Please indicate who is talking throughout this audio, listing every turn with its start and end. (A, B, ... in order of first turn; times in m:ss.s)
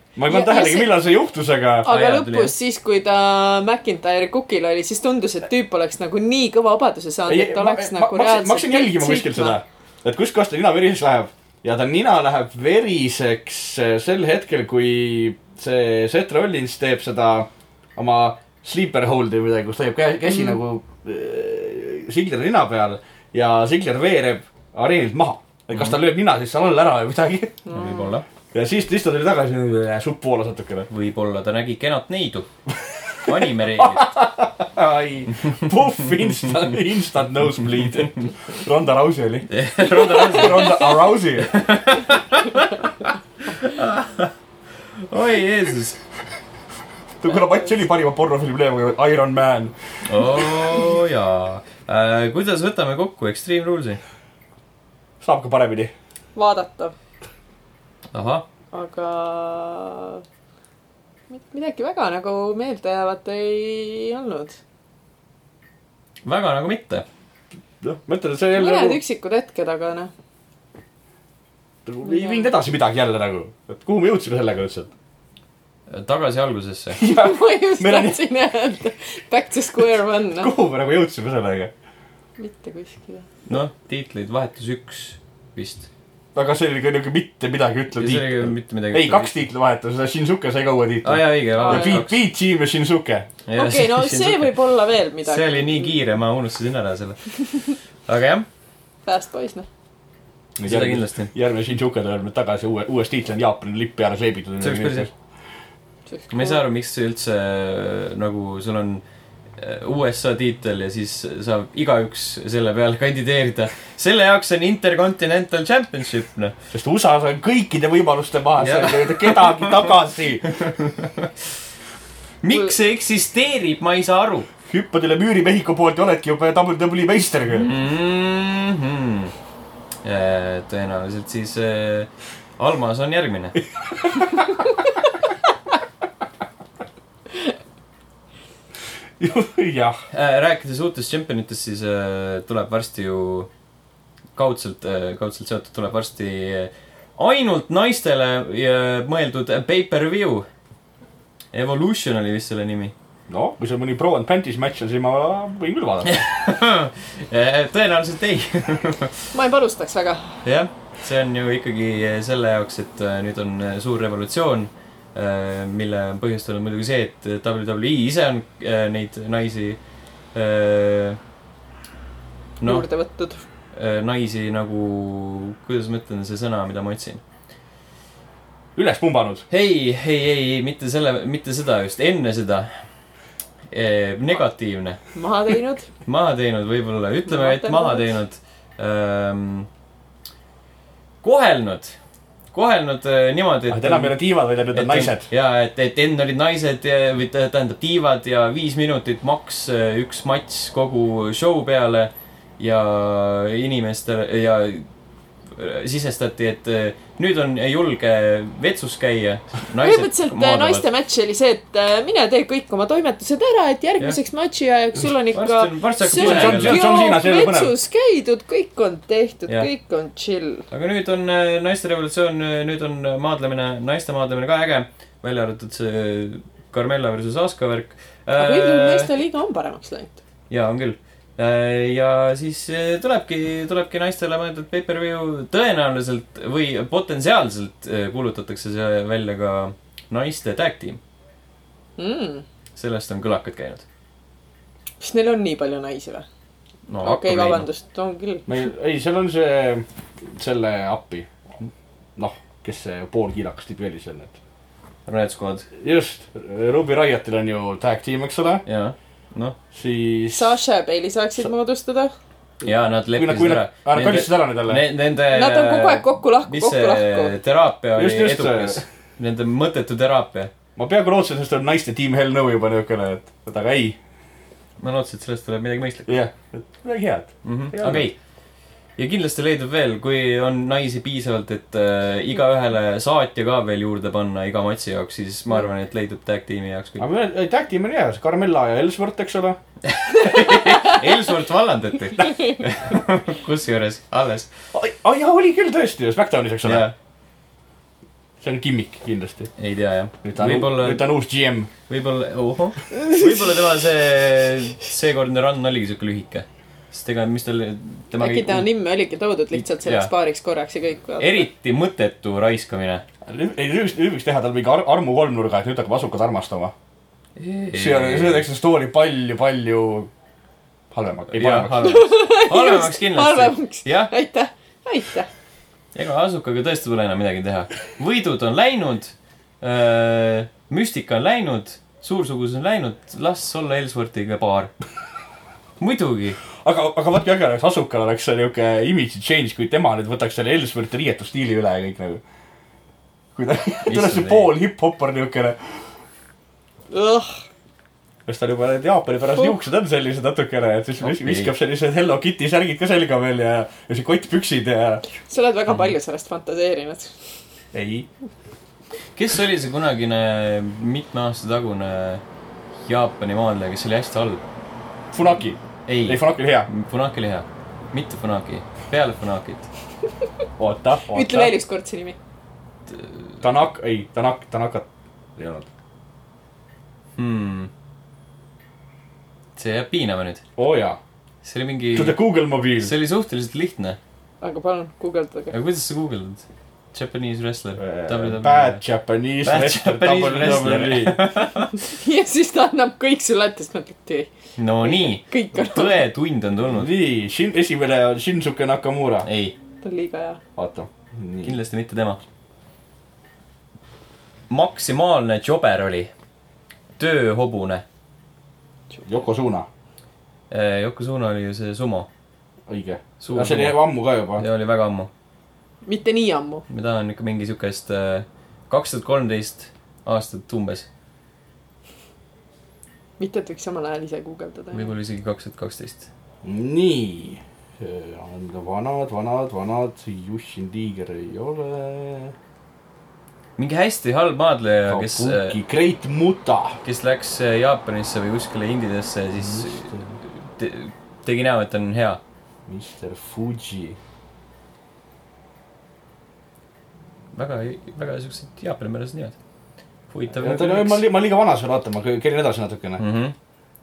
0:00.2-0:01.9 A
0:00.3-0:01.0 B
0:01.8-0:09.6 B
0:01.9-0:02.5 C
0:07.3-0:27.6 A
0:25.7-0:26.0 C
0:27.7-0:28.1 B
0:27.7-0:28.2 C
0:28.5-0:30.9 A
0:30.9-0:32.5 C
0:32.9-0:41.6 A
0:33.2-0:34.1 C
0:39.5-0:40.9 C
0:41.5-0:44.3 C
0:45.0-0:46.0 C
0:47.2-0:49.8 A
0:50.0-0:54.0 C
0:50.4-0:50.7 A
0:55.2-0:55.9 A
0:56.4-0:56.9 B
0:58.1-0:58.5 C
0:58.7-1:00.2 B
1:01.3-1:04.6 B
1:06.2-1:07.0 C
1:07.8-1:09.0 A
1:08.5-1:10.1 B
1:11.9-1:14.9 A
1:12.0-1:12.5 B
1:15.9-1:17.0 C
1:17.0-1:18.2 A
1:17.0-1:20.5 B
1:20.4-1:21.7 A
1:22.4-1:23.3 B
1:23.5-1:25.9 C
1:26.4-1:33.3 A
1:28.0-1:29.4 C
1:31.0-1:32.2 C
1:31.6-1:32.0 B
1:33.5-1:34.6 C
1:33.6-1:36.0 B
1:35.2-1:38.5 C
1:39.0-1:39.7 B
1:40.6-1:45.1 A
1:40.6-1:41.3 C
1:44.6-1:45.1 C
1:46.1-1:46.6 B
1:46.3-1:49.0 C
1:49.6-1:56.5 C
1:56.7-2:00.6 A
1:58.6-1:59.9 C
2:00.4-2:01.3 C
2:02.4-2:04.5 C
2:04.7-2:07.7 A
2:07.6-2:09.3 C
2:10.0-2:13.6 C
2:19.2-2:20.0 A
2:20.1-2:23.5 C
2:24.4-2:30.5 C
2:31.5-2:32.9 C
2:33.3-2:36.2 A
2:36.0-2:39.3 C
2:39.3-2:40.4 B
2:40.4-2:49.8 C
2:50.3-2:51.2 C
2:52.6-2:52.9 C
2:52.6-2:53.4 B
2:53.7-2:57.2 C
2:58.8-2:59.4 A
2:59.5-3:02.7 C
3:03.7-3:05.0 C
3:05.2-3:05.9 B
3:06.0-3:09.7 C
3:07.3-3:08.1 B
3:11.2-3:12.0 C
3:12.5-3:14.2 C
3:13.7-3:15.3 A
3:14.7-3:24.9 C
3:25.5-3:30.8 C
3:29.8-3:40.7 B
3:35.3-3:36.8 C
3:36.1-3:37.7 A
3:40.7-3:49.1 C
3:48.4-3:50.2 B
3:50.5-4:01.0 C
4:02.0-4:02.4 B
4:02.8-4:03.8 C
4:05.0-4:06.3 B
4:06.9-4:07.7 C
4:07.0-4:08.5 B
4:08.5-4:14.4 A
4:15.1-4:15.7 C
4:15.8-4:18.6 A
4:18.6-4:19.6 C
4:19.7-4:20.6 A
4:20.3-4:22.1 B
4:22.6-4:30.5 C
4:23.1-4:24.8 A
4:25.3-4:27.4 B
4:28.0-4:28.8 A
4:30.8-4:34.0 A
4:34.8-4:36.2 C
4:36.1-4:38.0 A
4:37.4-4:38.2 C
4:39.0-4:47.1 C
4:47.0-4:49.6 A
4:49.8-4:54.5 C
4:54.7-4:56.9 A
4:56.6-4:57.0 C
4:58.4-4:59.5 A
4:59.6-5:01.1 C
5:00.2-5:01.7 A
5:01.9-5:08.7 C
5:08.2-5:11.5 B
5:09.5-5:10.1 C
5:11.2-5:13.0 C
5:13.2-5:16.7 A
5:17.4-5:18.5 C
5:17.7-5:20.1 A
5:20.9-5:21.9 A
5:21.3-5:24.1 C
5:21.8-5:25.3 B
5:26.0-5:34.7 C
5:35.8-5:36.4 C
5:36.6-5:42.2 A
5:43.4-5:45.6 A
5:43.9-5:44.5 C
5:46.9-5:47.4 B
5:48.3-5:55.0 A
5:51.0-5:51.5 C
5:55.3-5:57.1 B
5:57.7-5:58.1 A
5:59.2-6:02.2 C
6:02.9-6:04.4 C
6:05.1-6:06.7 A
6:05.9-6:09.7 C
6:10.6-6:11.5 A
6:11.1-6:12.2 B
6:13.4-6:15.7 A
6:17.2-6:17.7 C
6:19.6-6:20.4 C
6:20.6-6:21.0 A
6:21.4-6:22.2 C
6:21.9-6:22.9 A
6:22.8-6:24.0 C
6:24.4-6:25.6 B
6:25.5-6:28.8 C
6:27.8-6:31.2 A
6:29.4-6:31.8 C
6:31.8-6:34.3 B
6:34.6-6:36.9 C
6:34.8-6:36.0 B
6:36.7-6:39.3 A
6:39.2-6:39.6 C
6:39.8-6:40.4 B
6:40.6-6:41.6 A
6:41.4-6:42.2 C
6:44.5-6:46.1 C
6:47.0-6:47.8 C
6:49.0-6:49.7 A
6:50.5-6:52.1 C
6:52.7-6:54.4 A
6:53.2-6:53.8 C
6:54.4-6:55.1 C
6:55.8-6:56.6 B
6:56.7-7:00.9 C
7:03.2-7:04.9 B
7:04.7-7:06.1 C
7:06.4-7:12.4 A
7:13.6-7:15.6 C
7:14.9-7:16.8 A
7:16.8-7:22.2 C
7:19.4-7:20.1 A
7:22.7-7:24.0 A
7:27.3-7:29.4 C
7:30.1-7:31.0 C
7:30.3-7:33.0 A
7:33.0-7:33.4 C